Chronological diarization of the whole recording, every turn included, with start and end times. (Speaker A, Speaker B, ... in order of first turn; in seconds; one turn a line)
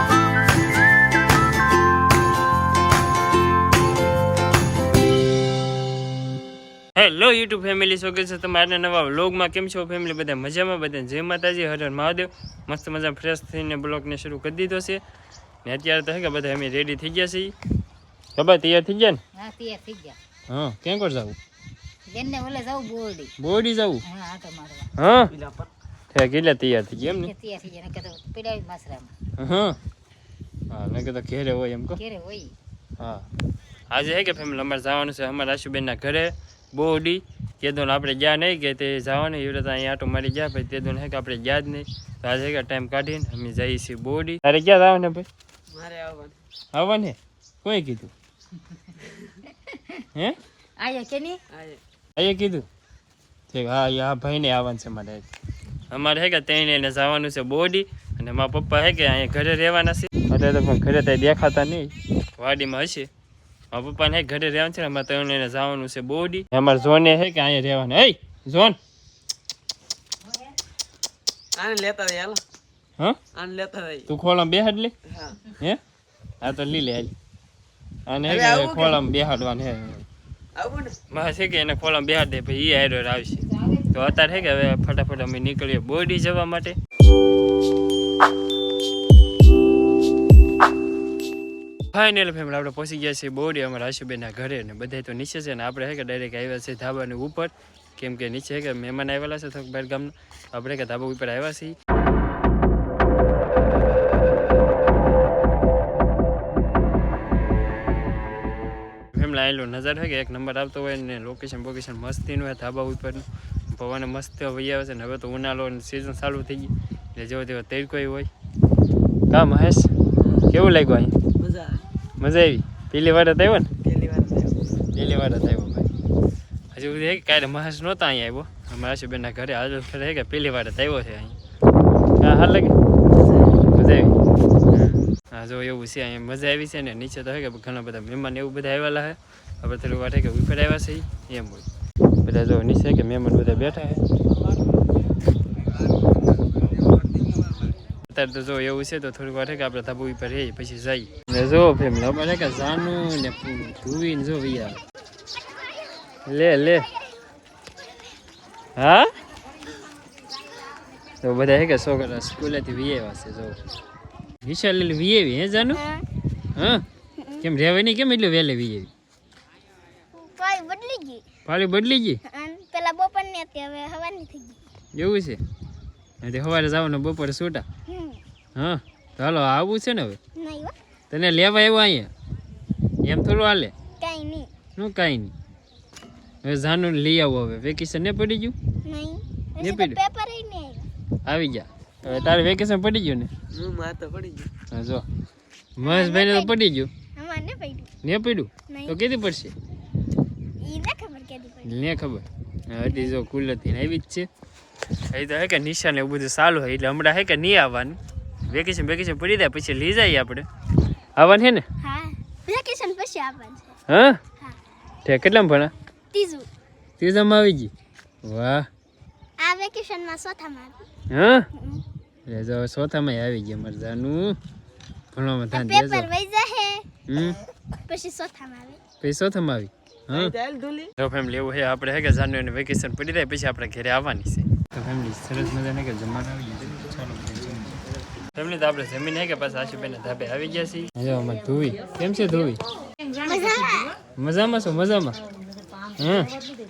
Speaker A: 7.0-15.0
Speaker A: 15.6-17.5
Speaker A: 18.4-19.2
Speaker B: 19.3-20.2
Speaker A: 20.5-21.4
Speaker B: 22.1-23.3
Speaker A: 23.4-24.0
Speaker B: 24.1-24.9
Speaker A: 25.0-25.3
Speaker C: 25.3-25.7
Speaker A: 26.1-27.3
Speaker B: 27.1-29.1
Speaker A: 29.4-29.8
Speaker A: 30.7-32.0
Speaker B: 32.0-32.5
Speaker A: 33.0-33.2
Speaker A: 33.9-45.3
Speaker C: 45.7-46.4
Speaker A: 46.7-48.1
Speaker B: 49.5-50.0
Speaker B: 50.8-51.4
Speaker C: 51.5-51.8
Speaker A: 52.2-52.7
Speaker A: 53.5-55.3
Speaker A: 55.9-63.1
Speaker A: 63.7-68.8
Speaker C: 71.6-72.4
Speaker C: 73.3-74.1
Speaker A: 74.1-74.9
Speaker C: 75.1-75.4
Speaker A: 76.4-77.1
Speaker A: 78.1-80.0
Speaker C: 78.2-79.0
Speaker C: 80.6-81.0
Speaker A: 81.1-86.8
Speaker A: 91.9-101.8
Speaker A: 109.1-118.3
Speaker A: 119.3-119.9
Speaker A: 120.5-121.1
Speaker C: 121.4-121.8
Speaker A: 122.2-123.7
Speaker C: 123.8-124.5
Speaker A: 124.9-125.9
Speaker A: 126.7-131.4
Speaker A: 132.2-132.8
Speaker C: 133.1-133.6
Speaker A: 133.7-134.2
Speaker A: 134.7-141.7
Speaker A: 142.2-144.0
Speaker A: 148.1-154.8
Speaker A: 156.3-156.8
Speaker A: 158.8-159.1
Speaker A: 161.2-163.6
Speaker A: 164.4-165.8
Speaker D: 165.7-166.1
Speaker A: 166.6-166.8
Speaker D: 167.2-167.5
Speaker A: 167.4-168.9
Speaker D: 170.1-171.2
Speaker A: 171.5-172.2
Speaker D: 172.3-174.6
Speaker A: 174.9-175.4
Speaker A: 176.2-177.7
Speaker D: 177.9-178.2
Speaker A: 178.6-180.2
Speaker D: 180.4-180.8
Speaker A: 181.1-182.1
Speaker A: 183.0-183.7
Speaker D: 184.0-184.5
Speaker A: 184.8-185.3
Speaker A: 186.4-188.6
Speaker D: 188.8-190.9
Speaker A: 189.6-190.0
Speaker A: 191.3-193.3
Speaker C: 193.5-194.5
Speaker A: 194.7-195.1
Speaker A: 195.8-196.9
Speaker D: 195.8-196.5
Speaker D: 197.2-197.9
Speaker A: 198.0-199.5
Speaker D: 198.7-198.9
Speaker D: 200.6-201.8
Speaker A: 201.7-204.3
Speaker A: 205.1-210.5
Speaker A: 211.2-211.7
Speaker D: 211.8-213.8
Speaker A: 213.9-214.2
Speaker A: 215.1-215.7
Speaker D: 216.1-216.5
Speaker A: 217.0-217.7
Speaker A: 218.2-218.7
Speaker D: 219.4-220.9
Speaker A: 221.1-221.5
Speaker D: 221.5-221.8
Speaker A: 222.3-224.4
Speaker A: 225.1-226.1
Speaker D: 225.5-226.9
Speaker A: 227.1-227.4
Speaker D: 227.9-228.8
Speaker A: 229.0-230.3
Speaker C: 230.1-230.9
Speaker A: 231.0-237.8
Speaker A: 238.3-242.6
Speaker D: 243.2-243.9
Speaker A: 244.2-245.2
Speaker A: 246.0-246.3